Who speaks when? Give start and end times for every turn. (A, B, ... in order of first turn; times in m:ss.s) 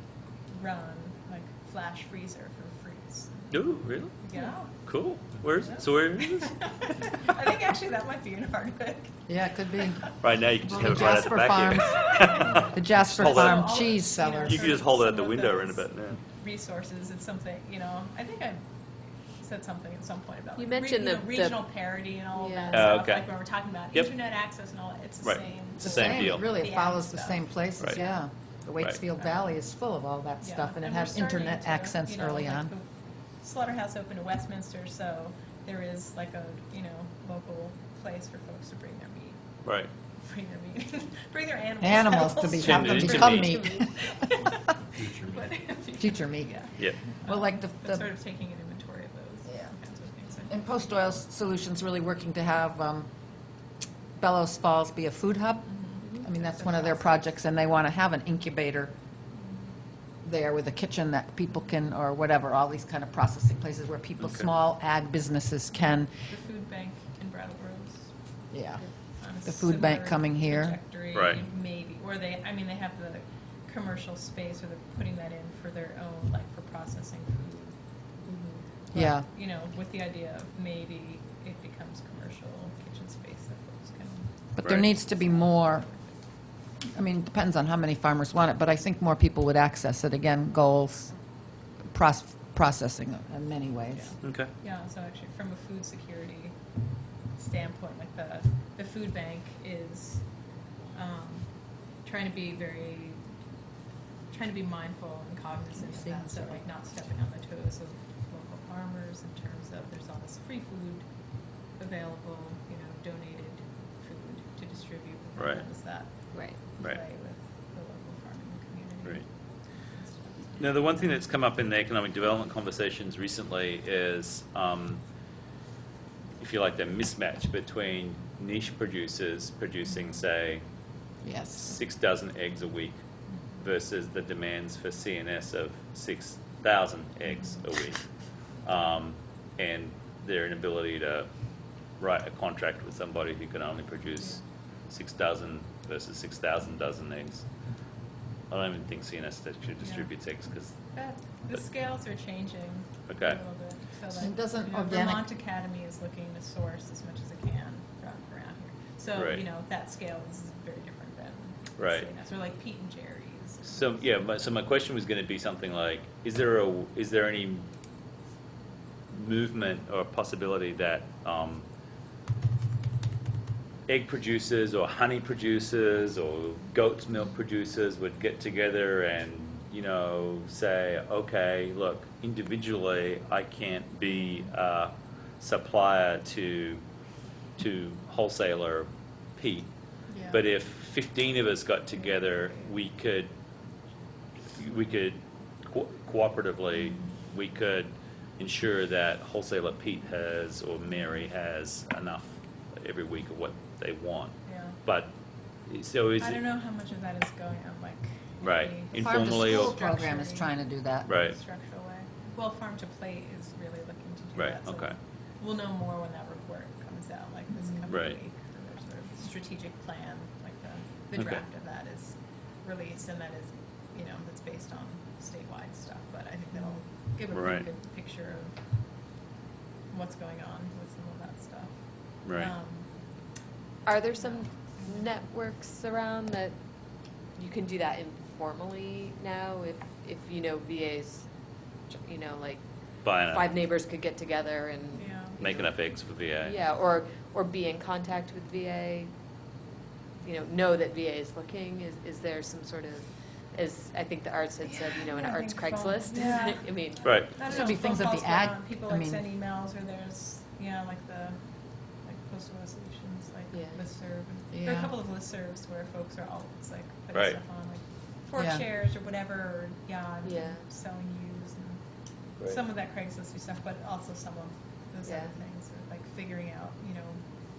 0:00.5-0:04.8 A
0:03.5-0:06.6 B
0:05.6-0:09.3 A
0:09.3-0:14.8 C
0:10.2-0:12.5 B
0:11.9-0:18.6 A
0:13.2-0:13.6 B
0:14.4-0:16.2 B
0:19.4-0:28.2 A
0:20.6-0:21.7 D
0:22.3-0:23.0 D
0:22.7-0:23.3 B
0:25.2-0:26.5 B
0:25.8-0:32.7 C
0:30.4-0:32.9 A
0:33.4-0:39.6 A
0:39.6-0:39.9 B
0:40.2-0:50.6 A
0:41.8-0:44.1 C
0:42.6-0:43.6 B
0:46.0-0:48.1 C
0:50.5-0:53.1 C
0:54.2-0:58.9 C
0:55.7-0:57.3 A
1:00.2-1:06.1 C
1:04.2-1:04.5 B
1:06.2-1:08.1 A
1:08.5-1:08.8 C
1:09.2-1:17.8 A
1:09.4-1:10.8 C
1:11.1-1:11.4 B
1:18.2-1:18.7 D
1:18.9-1:26.2 A
1:18.9-1:19.3 C
1:24.6-1:25.8 C
1:26.8-1:31.1 C
1:31.8-1:34.2 C
1:33.9-1:36.6 A
1:34.2-1:34.5 B
1:37.3-1:43.2 A
1:44.3-1:51.1 A
1:46.0-1:46.6 D
1:51.6-2:01.2 A
1:55.4-1:55.6 B
1:56.3-1:56.7 D
2:00.6-2:05.0 B
2:06.4-2:10.6 B
2:11.2-2:11.8 C
2:11.6-2:13.0 B
2:13.6-2:18.0 B
2:17.3-2:17.6 A
2:18.6-2:21.3 B
2:22.0-2:27.5 B
2:28.5-2:30.8 B
2:29.8-2:30.1 A
2:30.9-2:44.1 A
2:33.1-2:33.4 B
2:34.1-2:35.3 C
2:39.2-2:39.4 B
2:41.8-2:42.1 B
2:43.6-2:47.7 B
2:49.1-2:51.6 B
2:53.9-3:06.8 B
3:07.6-3:09.7 B
3:10.1-3:10.4 A
3:10.3-3:13.3 B
3:14.5-3:25.1 B
3:24.5-3:24.8 A
3:25.7-3:26.4 B
3:26.2-3:30.5 A
3:28.4-3:29.7 B
3:28.9-3:31.1 C
3:31.0-3:48.6 A
3:31.1-3:31.4 B
3:34.4-3:35.0 B
3:37.9-3:38.2 B
3:41.2-3:41.4 B
3:47.3-3:47.7 B
3:49.9-3:52.9 A
3:52.2-3:52.5 B
3:53.9-3:56.6 D
3:54.2-3:54.9 A
3:57.4-4:01.3 D
4:01.9-4:09.1 D
4:03.0-4:03.5 B
4:05.0-4:05.4 A
4:05.4-4:06.6 B
4:10.2-4:17.7 D
4:14.6-4:21.4 A
4:17.0-4:17.3 B
4:17.4-4:19.2 C
4:22.0-4:31.8 A
4:23.5-4:23.8 D
4:24.5-4:24.9 C
4:27.1-4:27.4 B
4:28.4-4:28.6 C
4:30.2-4:30.7 D
4:32.4-4:37.2 A
4:35.0-4:35.4 D